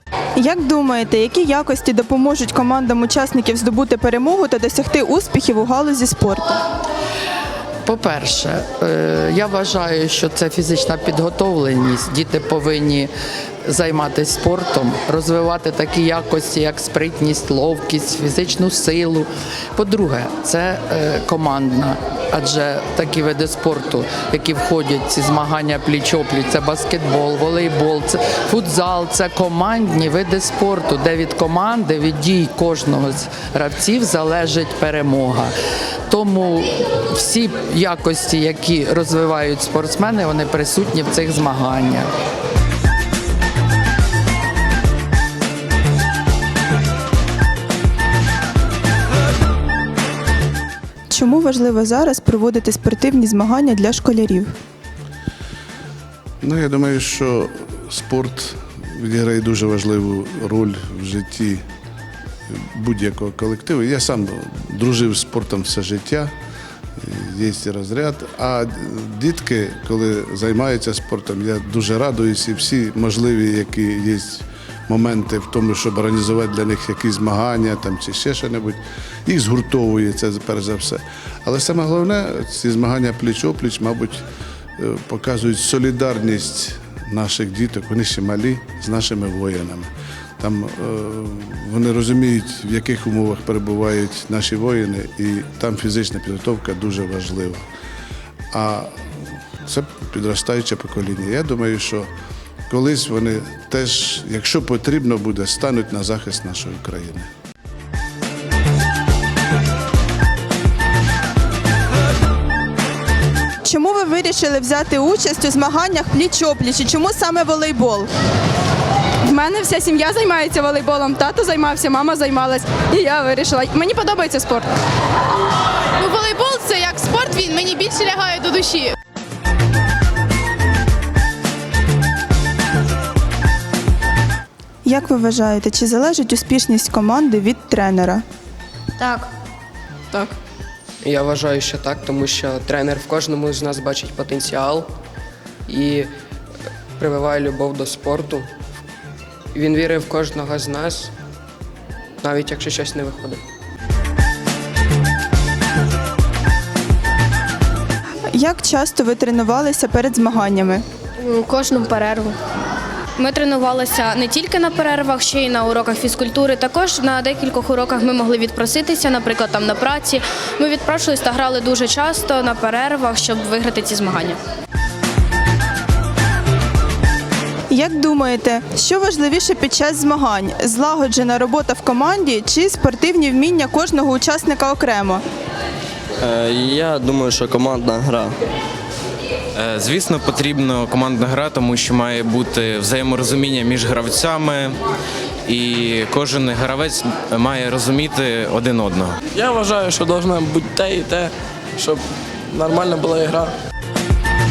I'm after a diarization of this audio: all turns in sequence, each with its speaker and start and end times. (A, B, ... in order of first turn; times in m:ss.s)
0:00.4-0:06.6 A
0:07.8-0:13.1 B
0:13.6-0:35.5 B
0:36.1-0:42.1 B
0:51.1-0:54.5 A
0:56.4-1:01.6 C
1:02.5-1:06.3 C
1:07.0-1:24.2 C
1:24.8-1:37.6 C
1:38.5-1:39.0 C
1:39.6-1:42.1 C
1:42.7-1:47.3 C
1:53.6-1:58.1 A
1:59.2-2:04.7 D
2:06.0-2:08.9 E
2:06.6-2:07.2 D
2:14.8-2:18.2 A
2:21.0-2:24.9 F
2:25.7-2:26.1 F
2:27.0-2:28.5 F
2:29.5-2:31.1 F
2:32.2-2:33.4 F
2:38.3-2:40.8 A
2:41.2-2:42.3 G
2:43.2-2:54.4 G
2:57.7-3:05.2 A
3:06.2-3:08.3 H
3:09.6-3:14.8 I
3:15.4-3:19.2 I
3:19.3-3:23.5 J